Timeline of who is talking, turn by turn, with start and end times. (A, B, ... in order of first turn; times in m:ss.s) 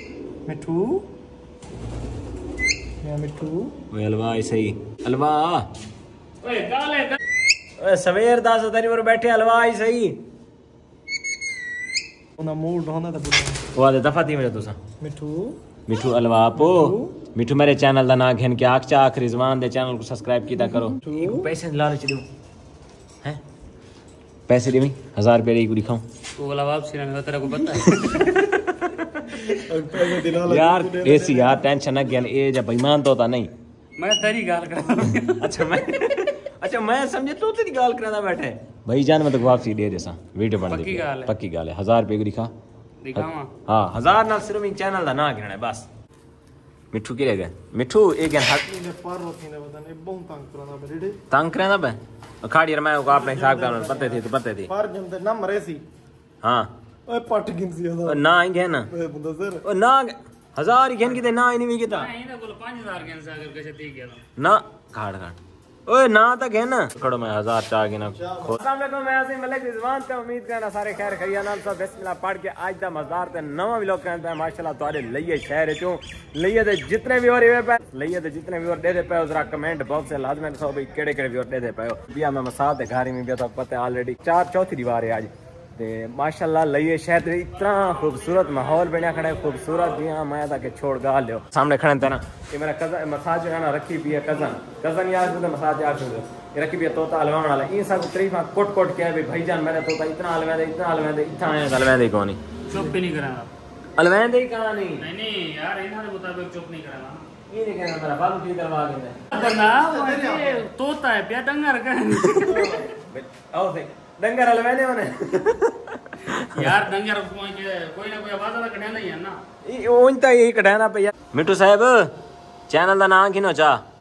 0:00.4-0:01.1 A
0:03.0-0:03.7 A
0:03.9-0:05.7 B
0:06.4-0:07.2 C
0:07.8-0:10.2 B
0:12.4-0:13.6 A
0:13.7-0:14.8 B
0:15.0-0:15.6 A
0:15.9-0:22.2 B
0:16.6-0:17.1 A
0:21.0-0:21.5 A
0:24.5-0:26.0 B
0:26.4-0:28.3 C
0:27.9-0:33.5 B
0:29.5-0:31.6 A
0:34.0-0:35.6 C
0:35.2-0:42.5 B
0:40.7-0:41.3 C
0:43.0-0:43.5 C
0:43.1-0:45.9 B
0:46.9-0:48.6 B
0:48.6-0:51.2 A
0:51.3-0:54.7 B
0:53.1-0:55.8 A
0:56.4-0:56.7 B
0:57.1-0:58.2 A
0:58.0-0:58.9 B
0:58.9-0:59.6 A
0:59.6-1:02.1 B
1:01.9-1:04.2 C
1:04.4-1:42.4 B
1:08.2-1:08.5 A
1:27.8-1:29.7 C
1:42.7-1:43.5 C
1:44.0-1:45.0 B
1:45.0-1:47.2 C
1:47.5-1:49.2 B
1:49.3-1:52.9 C
1:52.3-1:56.8 B
1:56.3-1:59.4 C
1:59.6-2:02.1 B
2:02.7-2:03.8 B